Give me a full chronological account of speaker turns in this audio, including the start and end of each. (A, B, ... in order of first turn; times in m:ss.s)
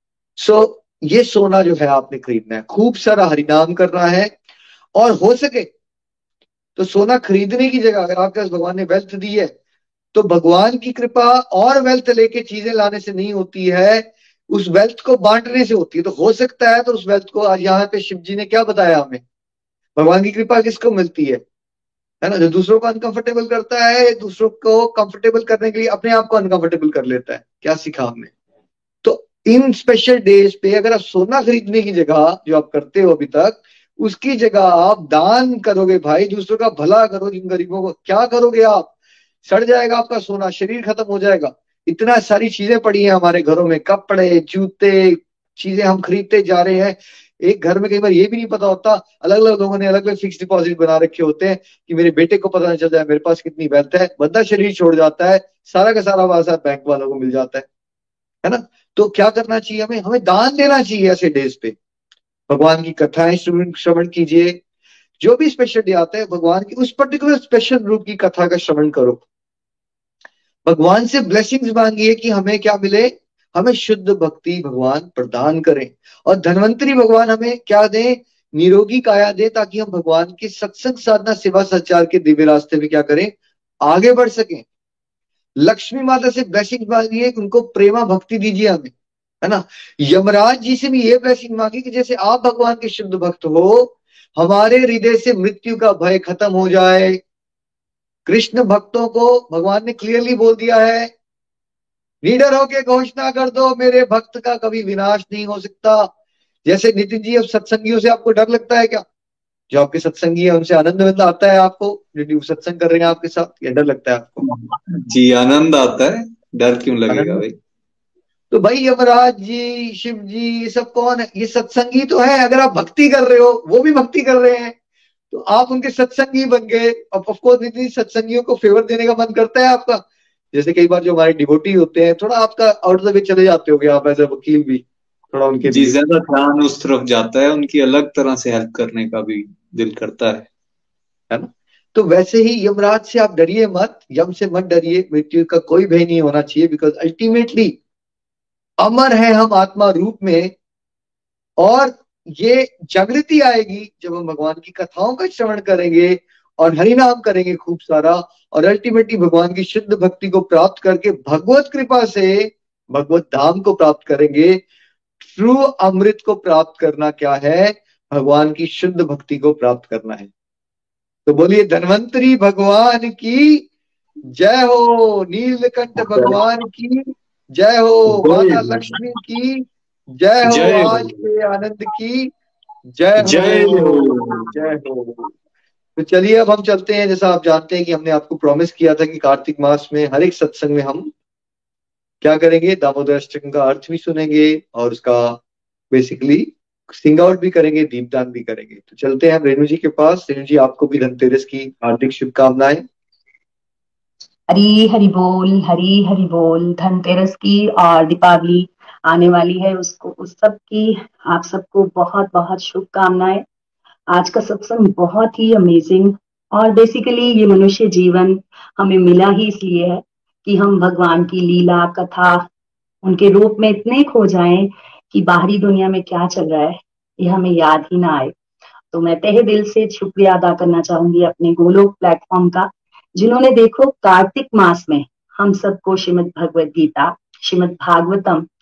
0:00.4-0:04.3 A
0:04.9-0:05.7 A
0:06.8-0:09.5 A
0:10.1-0:19.2 A
0:20.0-0:21.4 A
0:22.2-0:28.3 A
0:29.0-0:38.9 A
0:39.4-0:57.7 A
0:58.4-1:01.8 A
1:02.5-1:04.6 A
1:05.2-1:09.2 A
1:10.6-1:24.6 A
1:25.6-1:37.2 A
1:38.2-1:41.1 A
1:42.2-1:46.1 A
1:46.6-1:49.0 A
1:49.7-1:54.4 A
1:54.4-1:57.6 B
1:57.1-1:57.4 A
1:58.5-2:04.7 A
2:05.3-2:15.9 A
2:15.7-2:20.5 B
2:21.3-2:27.8 A
2:28.8-2:30.5 A
2:31.6-2:44.6 A
2:45.2-2:50.3 A
2:51.2-2:53.7 A
2:54.3-3:02.3 A
2:56.0-2:56.4 B
2:58.1-2:59.0 B
3:00.4-3:01.2 B
3:02.9-3:05.3 A
3:03.2-3:04.5 B
3:06.0-3:11.1 A
3:12.2-3:22.8 A
3:24.5-3:33.4 C
3:34.1-3:42.5 C
3:43.0-3:48.3 C
3:48.9-3:58.5 C